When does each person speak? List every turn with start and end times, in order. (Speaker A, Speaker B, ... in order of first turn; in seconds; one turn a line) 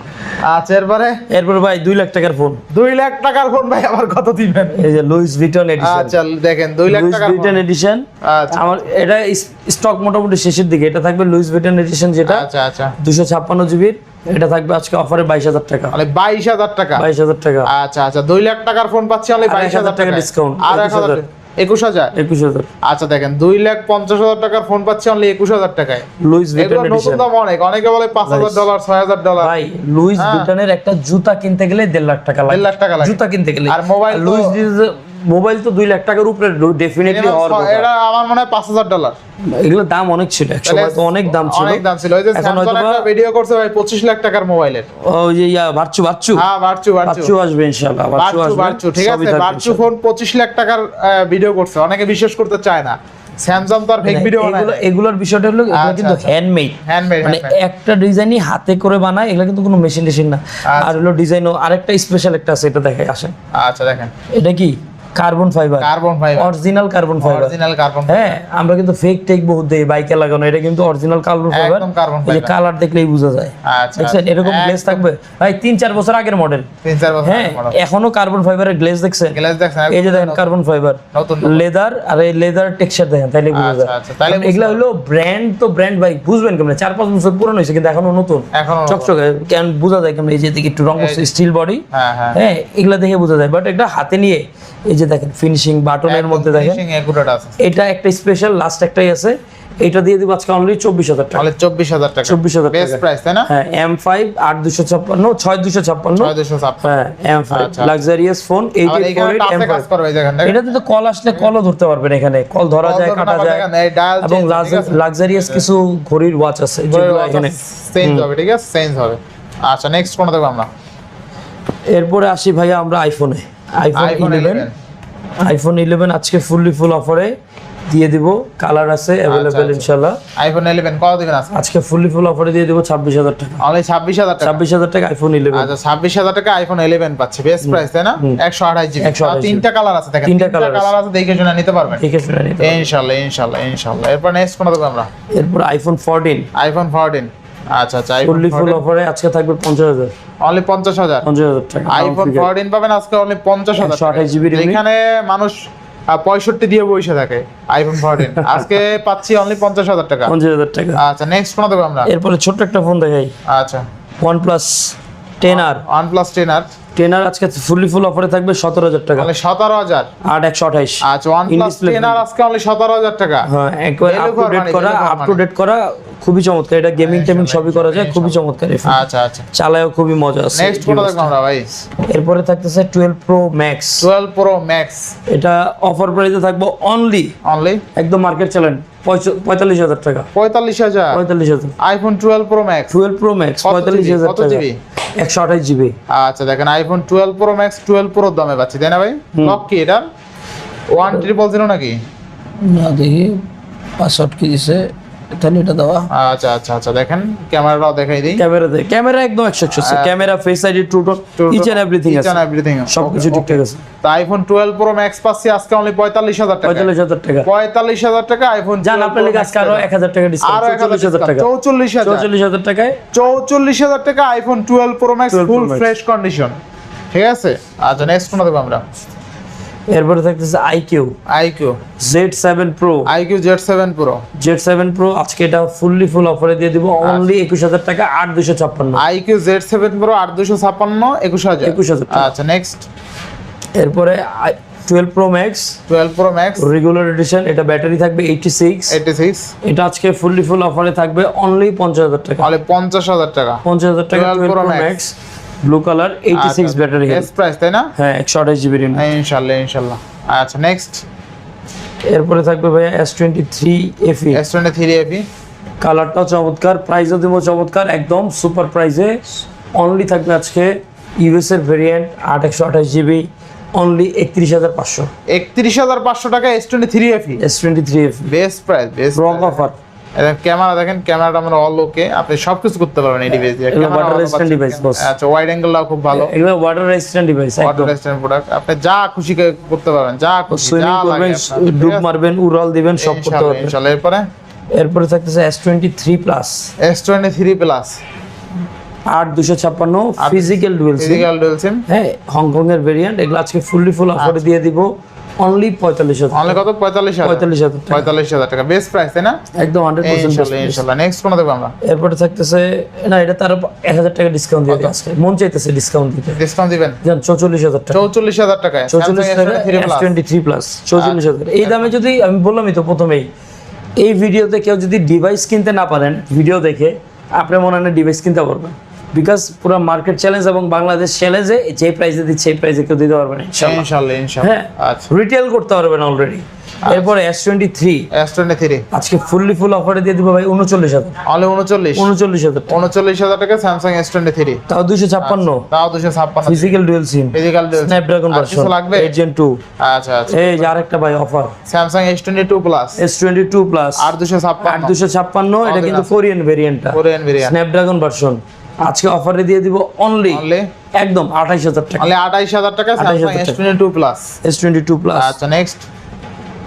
Speaker A: 0.4-1.2
Speaker B: 1.3-2.6
Speaker A: 2.7-4.8
Speaker B: 4.8-6.2
Speaker A: 5.8-7.6
Speaker B: 6.9-16.0
Speaker A: 8.2-8.8
Speaker A: 12.2-12.9
Speaker A: 15.9-17.1
Speaker B: 16.9-17.7
Speaker A: 17.7-22.1
Speaker B: 19.4-21.2
Speaker B: 22.1-22.7
Speaker A: 22.8-29.5
Speaker B: 26.2-27.2
Speaker B: 28.2-28.6
Speaker B: 29.4-37.9
Speaker A: 30.1-30.5
Speaker A: 32.5-34.6
Speaker A: 37.1-39.1
Speaker B: 39.4-43.1
Speaker A: 40.6-44.9
Speaker B: 45.0-46.5
Speaker A: 46.4-47.3
Speaker B: 47.0-49.8
Speaker A: 48.1-54.9
Speaker B: 54.0-63.3
Speaker A: 55.7-56.3
Speaker A: 56.9-57.6
Speaker A: 60.6-61.0
Speaker A: 63.5-64.1
Speaker B: 64.3-67.5
Speaker A: 65.8-66.5
Speaker A: 67.2-68.4
Speaker B: 68.1-76.7
Speaker A: 71.5-72.5
Speaker A: 73.6-75.0
Speaker A: 76.8-77.8
Speaker B: 77.2-79.4
Speaker A: 79.3-80.5
Speaker B: 79.9-96.8
Speaker A: 81.1-81.7
Speaker A: 83.5-84.8
Speaker A: 88.5-89.1
Speaker A: 91.0-91.3
Speaker A: 91.9-92.4
Speaker A: 96.0-97.5
Speaker B: 97.6-101.5
Speaker A: 101.3-103.5
Speaker B: 102.2-109.9
Speaker A: 106.2-107.0
Speaker A: 107.5-108.0
Speaker A: 108.9-110.7
Speaker B: 110.4-113.7
Speaker A: 112.8-115.7
Speaker B: 114.2-118.3
Speaker A: 116.8-120.7
Speaker B: 121.9-124.7
Speaker A: 123.9-124.7
Speaker B: 125.4-127.3
Speaker B: 127.9-130.2
Speaker A: 129.3-131.5
Speaker B: 131.5-133.6
Speaker A: 133.6-134.6
Speaker B: 134.4-135.7
Speaker A: 135.5-142.0
Speaker B: 137.6-138.4
Speaker B: 139.0-139.6
Speaker B: 140.2-140.9
Speaker B: 142.0-142.9
Speaker A: 142.6-145.1
Speaker B: 145.3-146.5
Speaker A: 146.5-148.8
Speaker B: 148.2-150.1
Speaker A: 150.4-151.2
Speaker B: 151.2-152.5
Speaker A: 151.9-155.6
Speaker B: 153.8-154.8
Speaker A: 156.1-160.3
Speaker B: 160.3-161.0
Speaker A: 160.9-162.1
Speaker B: 162.0-163.3
Speaker A: 163.5-163.8
Speaker B: 164.2-165.8
Speaker A: 165.4-166.7
Speaker B: 166.9-169.3
Speaker A: 169.2-170.1
Speaker B: 170.2-172.2
Speaker A: 171.0-173.5
Speaker B: 173.4-181.3
Speaker A: 174.1-175.4
Speaker A: 177.0-179.5
Speaker A: 180.5-181.7
Speaker B: 182.1-184.1
Speaker A: 184.0-185.1
Speaker B: 185.3-187.3
Speaker A: 187.4-187.8
Speaker B: 187.9-190.3
Speaker A: 190.3-191.2
Speaker B: 191.1-191.8
Speaker A: 191.8-192.9
Speaker B: 192.9-194.7
Speaker A: 193.6-194.8
Speaker B: 195.2-195.9
Speaker A: 196.1-200.1
Speaker B: 199.3-199.6
Speaker A: 200.9-202.0
Speaker B: 202.6-203.4
Speaker B: 204.0-206.1
Speaker A: 206.1-208.4
Speaker B: 208.4-213.8
Speaker A: 209.8-210.2
Speaker A: 211.4-216.9
Speaker B: 216.6-217.5
Speaker A: 217.4-219.9
Speaker B: 218.8-221.5
Speaker A: 220.4-222.3
Speaker B: 222.0-223.0
Speaker A: 223.1-226.6
Speaker B: 225.3-225.9
Speaker A: 227.1-228.8
Speaker B: 229.9-231.2
Speaker A: 231.3-231.8
Speaker B: 232.0-233.1
Speaker A: 233.1-234.2
Speaker B: 234.3-239.0
Speaker A: 237.0-237.3
Speaker A: 238.9-242.9
Speaker B: 241.6-242.3
Speaker B: 243.8-245.8
Speaker A: 245.9-246.7
Speaker B: 246.6-249.0
Speaker A: 248.9-249.5
Speaker B: 249.6-252.5
Speaker A: 252.4-255.0
Speaker B: 253.6-257.3
Speaker A: 256.3-257.9
Speaker B: 258.0-259.1
Speaker A: 258.9-261.0
Speaker B: 262.1-264.4
Speaker A: 264.3-265.3
Speaker B: 265.8-275.1
Speaker A: 275.3-277.4
Speaker B: 277.4-278.3
Speaker A: 278.3-279.7
Speaker B: 279.1-279.8
Speaker A: 280.2-286.3
Speaker B: 283.7-285.1
Speaker B: 286.1-287.9
Speaker A: 287.6-292.1
Speaker B: 290.5-293.8
Speaker A: 293.0-294.3
Speaker B: 294.7-296.7
Speaker A: 296.8-298.0
Speaker B: 299.1-301.3
Speaker A: 300.2-301.8
Speaker B: 301.9-306.6
Speaker A: 304.2-304.5
Speaker A: 306.3-309.4
Speaker B: 307.2-308.1
Speaker B: 309.5-310.8
Speaker A: 310.0-311.8
Speaker B: 311.8-316.4
Speaker A: 314.7-314.9
Speaker A: 316.3-317.0
Speaker B: 317.0-318.0
Speaker A: 317.9-320.1
Speaker B: 318.9-323.3
Speaker A: 321.0-321.9
Speaker B: 324.0-333.8
Speaker A: 333.6-335.1
Speaker B: 334.4-338.1
Speaker A: 338.1-338.8
Speaker B: 338.9-341.2
Speaker A: 341.2-342.1
Speaker B: 342.0-342.8
Speaker A: 342.7-344.6
Speaker B: 344.7-345.7
Speaker A: 345.2-346.8
Speaker B: 346.4-349.6
Speaker A: 347.3-349.1
Speaker A: 349.8-350.7
Speaker B: 350.3-351.5
Speaker A: 351.7-353.0
Speaker B: 353.0-354.1
Speaker A: 354.0-355.0
Speaker B: 354.6-360.4
Speaker A: 355.6-356.1
Speaker A: 356.9-357.6
Speaker A: 360.3-360.7
Speaker B: 360.9-362.1
Speaker A: 362.0-364.3
Speaker B: 363.0-363.6
Speaker B: 364.4-365.4
Speaker A: 365.1-365.9